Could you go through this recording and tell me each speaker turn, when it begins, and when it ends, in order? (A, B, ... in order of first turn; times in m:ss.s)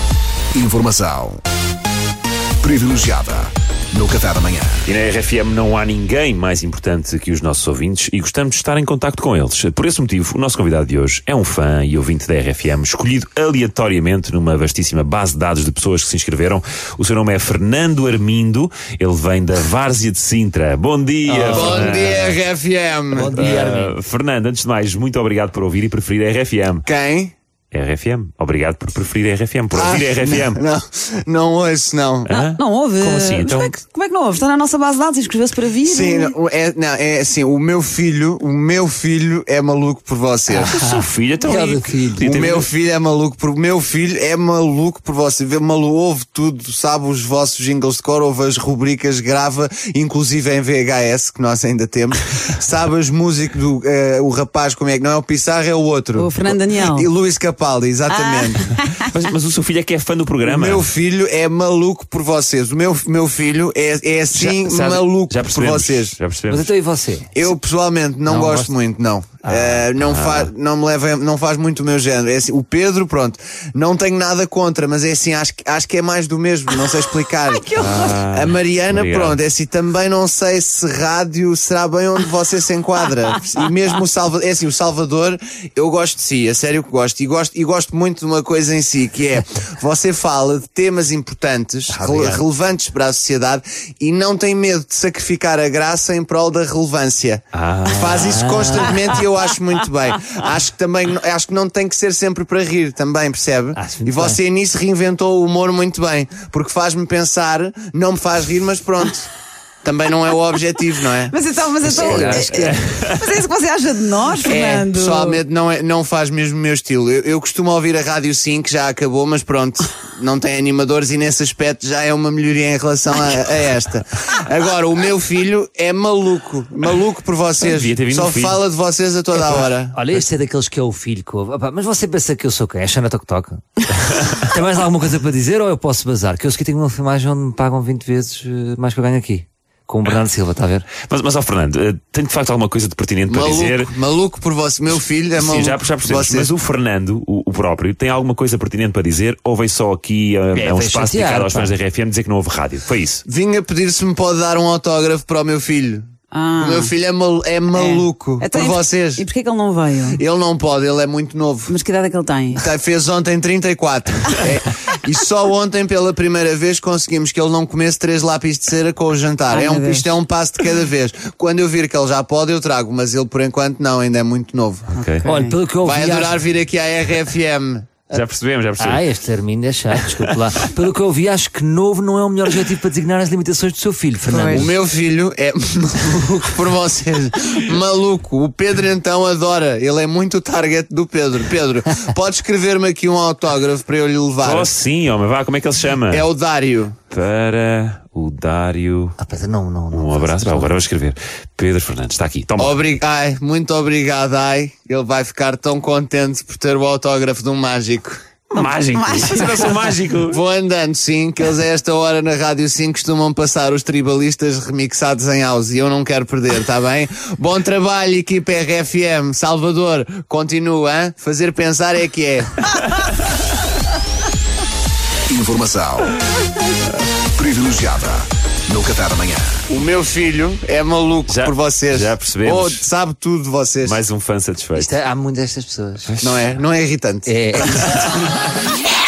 0:00.5-0:01.4 A
0:02.6-0:04.8 A
0:04.9-0:22.4 B
0:21.3-0:22.2 C
0:21.4-0:23.5 D
0:23.1-0:24.0 C
0:23.3-0:26.8 B
0:26.8-0:27.3 D
0:27.7-0:30.6 B
0:29.7-0:32.3 D
0:32.3-0:33.8 B
0:32.3-0:36.4 E
0:35.8-0:40.8 D
0:40.5-0:42.4 C
0:40.7-0:42.7 B
0:42.2-0:58.7 D
0:56.1-0:57.1 E
0:58.1-0:59.2 E
0:59.1-1:00.9 B
1:00.4-1:06.2 D
1:04.3-1:06.7 B
1:06.5-1:07.5 C
1:07.3-1:49.3 D
1:08.3-1:08.7 C
1:09.4-1:09.9 C
1:10.0-1:10.5 B
1:17.4-1:18.2 E
1:17.8-1:19.4 B
1:31.9-1:32.4 C
1:37.5-1:39.2 B
1:38.2-1:39.0 C
1:43.8-1:44.4 C
1:49.8-1:51.3 D
1:51.3-1:55.4 E
1:51.8-1:53.3 B
1:51.9-1:52.8 C
1:54.4-2:10.0 D
2:07.6-2:08.6 B
2:09.5-2:20.9 C
2:21.0-2:23.9 B
2:23.3-2:26.5 D
2:24.9-2:33.2 B
2:30.5-2:31.8 C
2:33.2-2:39.2 D
2:36.3-2:36.9 E
2:37.7-2:40.2 E
2:40.1-2:41.8 D
2:41.7-2:42.7 E
2:42.5-2:54.9 D
2:49.5-2:50.2 E
2:54.9-2:55.3 B
2:55.0-2:55.6 E
2:55.2-2:56.4 C
2:55.8-2:58.0 D
2:58.1-2:59.1 B
2:58.8-3:04.7 C
3:00.0-3:00.4 B
3:04.3-3:04.7 E
3:04.5-3:14.7 D
3:14.4-3:16.3 B
3:16.1-3:17.0 D
3:17.1-3:19.2 B
3:19.2-3:20.8 C
3:19.9-3:22.8 B
3:22.6-3:28.2 D
3:28.5-3:29.9 E
3:28.6-3:30.4 B
3:30.2-3:42.7 D
3:45.3-3:46.1 A
3:47.4-3:49.7 A
3:49.7-3:54.0 D
3:51.3-3:52.9 B
3:53.8-3:54.9 B
3:54.7-3:56.2 C
3:56.1-3:56.5 B
3:56.2-3:58.0 D
3:57.2-3:58.2 C